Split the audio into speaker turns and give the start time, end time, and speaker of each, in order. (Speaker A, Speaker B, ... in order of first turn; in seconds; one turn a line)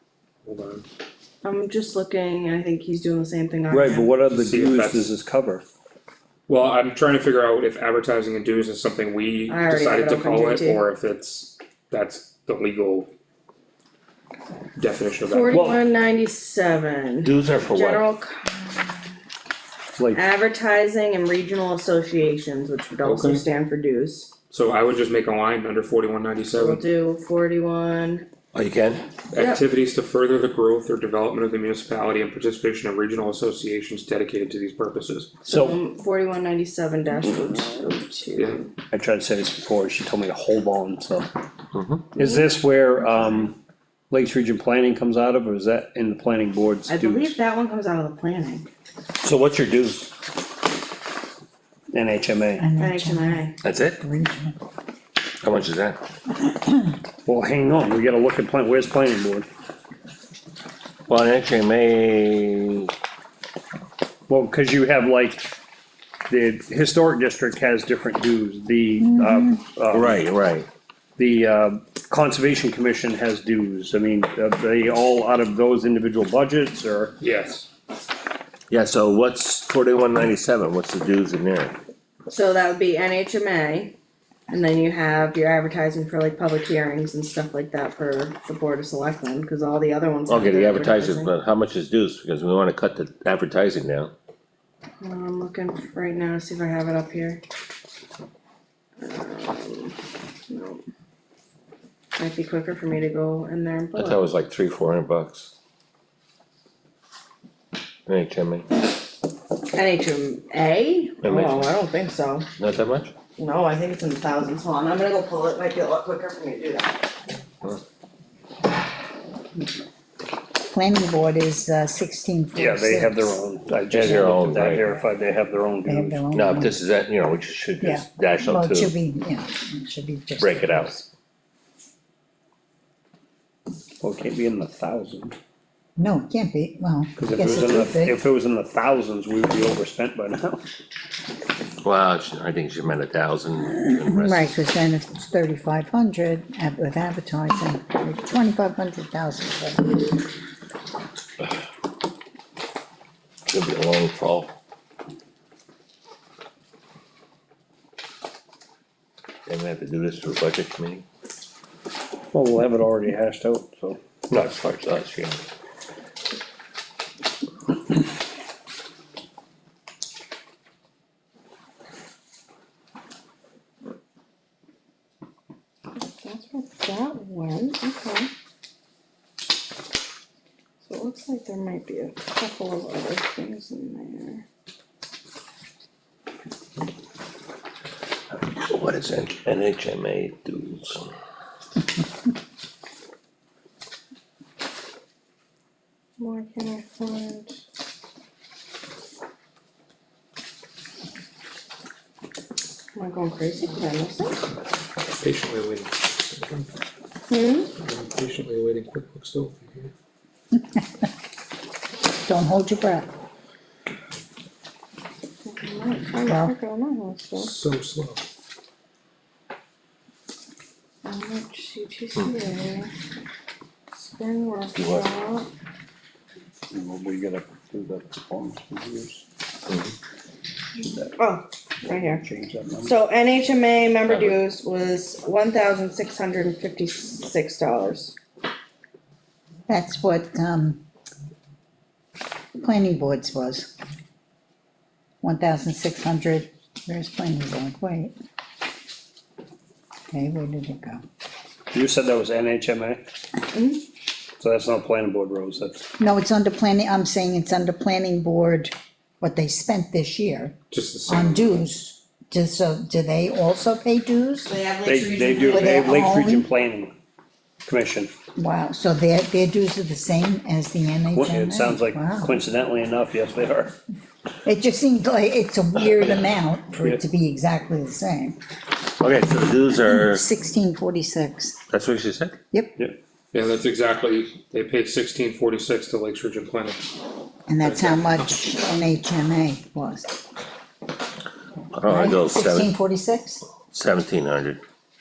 Speaker A: 0.5-0.8
Speaker B: 1.4-4.1
Speaker C: 3.7-5.7
Speaker A: 4.3-5.1
Speaker A: 6.5-13.1
Speaker B: 9.5-10.8
Speaker A: 14.8-15.8
Speaker B: 15.2-18.9
Speaker C: 15.5-15.8
Speaker D: 17.2-18.1
Speaker C: 20.0-20.2
Speaker B: 20.1-24.3
Speaker A: 23.0-23.5
Speaker A: 24.5-26.8
Speaker B: 26.5-28.3
Speaker D: 28.5-29.0
Speaker A: 29.3-35.4
Speaker B: 29.4-29.6
Speaker C: 35.5-35.8
Speaker B: 35.5-38.7
Speaker A: 38.4-38.6
Speaker C: 38.9-41.3
Speaker D: 41.7-42.1
Speaker C: 42.1-43.5
Speaker C: 44.1-47.4
Speaker B: 46.9-48.7
Speaker D: 49.2-50.1
Speaker C: 51.9-52.7
Speaker E: 52.6-54.6
Speaker B: 52.8-53.6
Speaker D: 53.6-54.0
Speaker D: 55.4-56.0
Speaker C: 57.2-59.5
Speaker D: 61.1-62.9
Speaker C: 64.3-65.5
Speaker C: 66.3-70.2
Speaker E: 69.0-69.6
Speaker D: 69.9-70.7
Speaker C: 71.2-77.2
Speaker A: 77.2-77.7
Speaker D: 78.7-81.8
Speaker B: 82.3-83.9
Speaker B: 84.5-91.3
Speaker D: 90.3-94.1
Speaker B: 95.0-97.4
Speaker B: 99.0-100.0
Speaker B: 100.5-100.8
Speaker B: 102.2-104.2
Speaker D: 104.0-105.5
Speaker D: 108.1-108.7
Speaker B: 109.7-112.5
Speaker D: 111.2-111.7
Speaker D: 112.6-113.1
Speaker B: 113.4-117.0
Speaker E: 120.6-123.4
Speaker C: 122.6-126.3
Speaker D: 123.9-124.9
Speaker E: 125.8-126.8
Speaker D: 126.3-128.9
Speaker E: 127.8-131.1
Speaker D: 130.4-131.0
Speaker C: 134.0-135.4
Speaker E: 136.0-138.2
Speaker C: 137.2-140.6
Speaker D: 141.8-144.6
Speaker E: 144.1-150.0
Speaker D: 153.5-154.6
Speaker D: 159.5-161.1
Speaker C: 162.3-164.0
Speaker D: 164.3-165.4
Speaker B: 175.9-178.3
Speaker B: 180.8-184.4
Speaker D: 188.3-191.1
Speaker B: 196.2-197.5
Speaker B: 202.9-204.4
Speaker A: 205.2-206.7
Speaker B: 207.3-207.7
Speaker A: 207.8-209.9
Speaker E: 212.2-213.1
Speaker B: 215.4-217.5
Speaker E: 216.3-216.5
Speaker A: 217.4-218.2
Speaker B: 221.0-222.9
Speaker B: 223.9-225.5
Speaker D: 224.8-225.1
Speaker C: 226.7-229.2
Speaker D: 229.7-229.9
Speaker C: 230.8-231.2
Speaker B: 231.2-232.2
Speaker C: 231.8-232.9
Speaker B: 232.8-238.2
Speaker E: 239.7-240.8
Speaker E: 242.6-243.7
Speaker E: 245.2-248.1
Speaker E: 250.1-251.0
Speaker C: 251.7-253.1
Speaker B: 253.5-253.8
Speaker C: 254.4-255.9
Speaker E: 256.0-260.6
Speaker A: 260.7-261.6
Speaker E: 261.1-264.5
Speaker B: 264.5-266.0
Speaker C: 264.9-266.9
Speaker E: 265.5-266.5
Speaker C: 267.6-268.1
Speaker E: 268.4-272.3
Speaker C: 271.1-273.8
Speaker E: 274.4-278.4
Speaker D: 279.0-280.2
Speaker E: 279.8-281.6
Speaker D: 281.7-282.4
Speaker A: 283.3-286.9
Speaker E: 287.5-290.2
Speaker A: 287.6-288.0
Speaker D: 291.7-292.7
Speaker E: 291.8-293.4
Speaker D: 293.7-294.6